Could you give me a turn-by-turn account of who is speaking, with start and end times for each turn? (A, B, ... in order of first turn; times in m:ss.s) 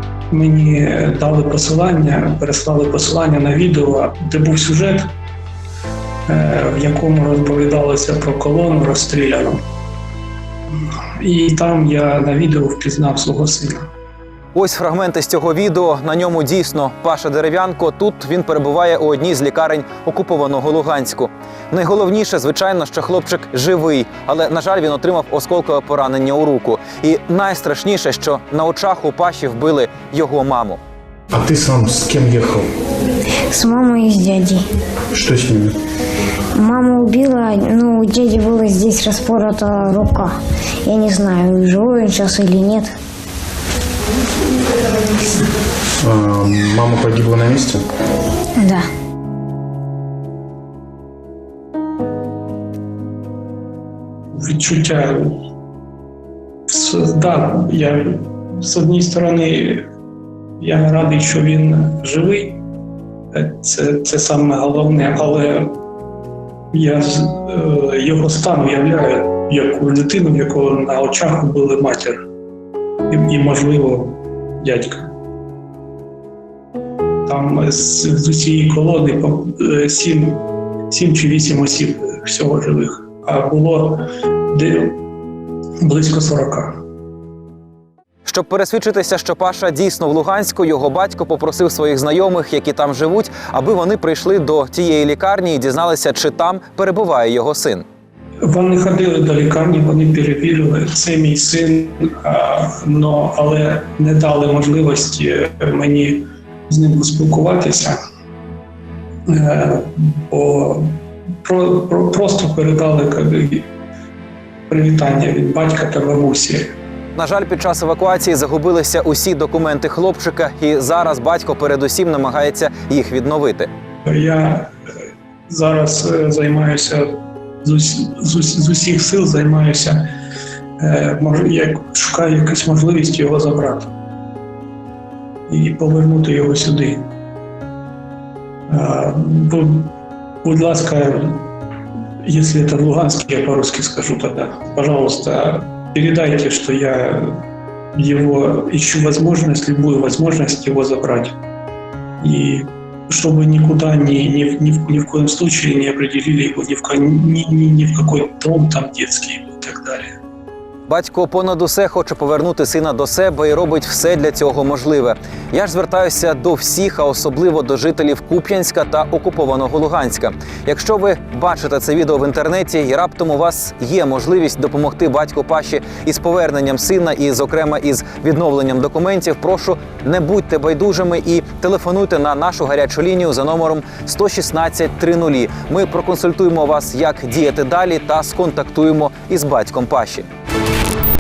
0:00.3-0:05.1 A
0:06.3-0:09.6 A
0:11.2-0:13.9 A
0:14.5-0:30.8 B
0:31.3-0:32.7 C
0:33.5-0:34.7 D
0:35.1-0:35.8 C
0:36.6-0:40.3 D
0:40.8-0:42.9 D
0:46.0-0:47.8 C
0:48.6-0:48.9 D
0:54.3-0:55.4 A
0:56.7-0:59.8 A
1:00.6-1:02.6 A
1:03.3-1:05.8 A
1:06.7-1:12.2 A
1:13.1-1:15.1 A
1:17.3-1:25.0 A
1:25.8-1:26.8 A
1:28.3-1:37.9 B
1:38.4-1:48.0 A
1:49.3-1:53.7 A
1:54.7-1:56.7 A
1:57.2-2:03.7 B
2:04.1-2:04.7 A
2:05.5-2:10.0 A
2:10.8-2:13.9 A
2:15.5-2:17.1 A
2:18.7-2:19.9 A
2:20.4-2:21.5 A
2:22.2-2:27.4 A
2:28.0-2:31.4 A
2:32.2-2:40.1 A
2:40.9-3:10.3 B